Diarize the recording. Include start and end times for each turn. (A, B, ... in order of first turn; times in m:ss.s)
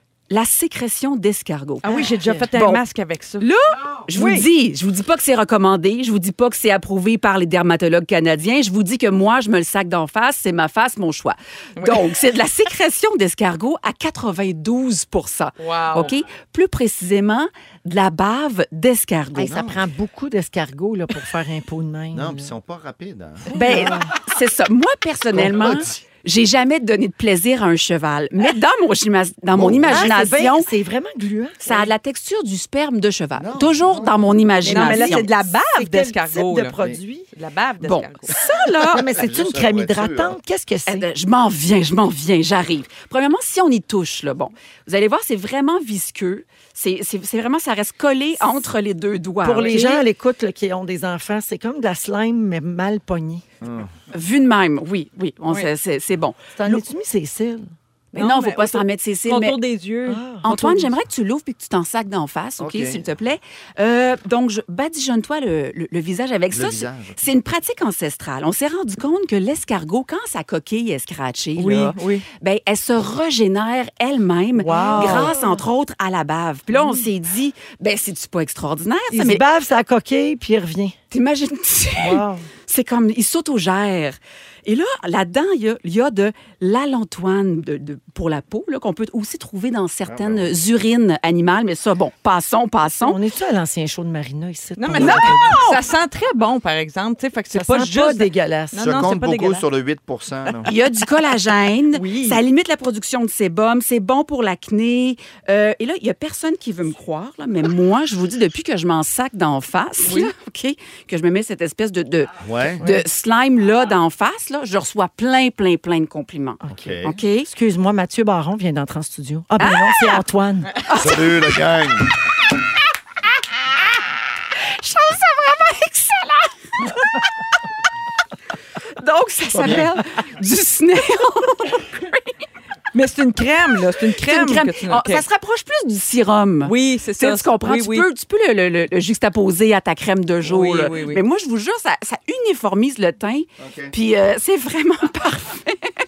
0:00.3-0:01.9 A
0:01.8-0:03.5 B
0:01.9-0:02.5 C
0:03.4-0:19.5 A
0:04.2-0:04.4 C
0:11.8-0:12.1 B
0:15.6-0:16.1 B
0:19.4-0:22.5 C
0:19.4-0:19.9 D
0:22.1-0:23.5 D
0:23.5-0:24.1 C
0:23.5-0:30.7 A
0:25.3-0:26.0 D
0:29.5-0:30.1 D
0:29.8-0:31.9 C
0:31.6-0:35.2 A
0:33.4-0:35.2 D
0:34.6-0:37.3 C
0:34.7-0:36.8 B
0:37.3-0:38.4 B
0:37.8-0:39.0 A
0:38.8-0:41.1 C
0:38.9-0:40.4 D
0:40.9-0:50.0 A
0:49.4-0:53.4 C
0:53.6-0:53.9 D
0:54.1-0:56.4 A
0:56.6-0:57.7 C
0:58.1-1:00.9 B
0:58.2-0:59.6 A
1:00.1-1:00.7 C
1:00.5-1:19.4 A
1:02.6-1:03.0 D
1:06.5-1:07.3 D
1:11.6-1:12.2 B
1:14.6-1:15.6 C
1:19.1-1:21.0 C
1:21.1-1:33.2 A
1:22.0-1:22.4 C
1:30.1-1:30.6 D
1:33.0-1:35.6 C
1:34.8-1:39.6 B
1:35.0-1:35.7 A
1:37.5-1:39.0 C
1:38.8-1:40.7 D
1:40.7-1:52.3 A
1:41.9-1:42.4 B
1:50.0-1:50.3 B
1:52.4-1:52.9 D
1:52.8-1:57.5 A
1:56.6-1:57.0 C
1:56.7-1:57.2 D
1:57.5-2:00.8 C
1:59.6-2:00.2 A
2:00.9-2:02.1 D
2:04.8-2:06.5 A
2:09.0-2:12.1 A
2:09.5-2:10.0 D
2:12.9-2:15.2 B
2:14.2-2:25.8 A
2:16.6-2:18.1 B
2:20.4-2:21.2 B
2:23.6-2:24.0 D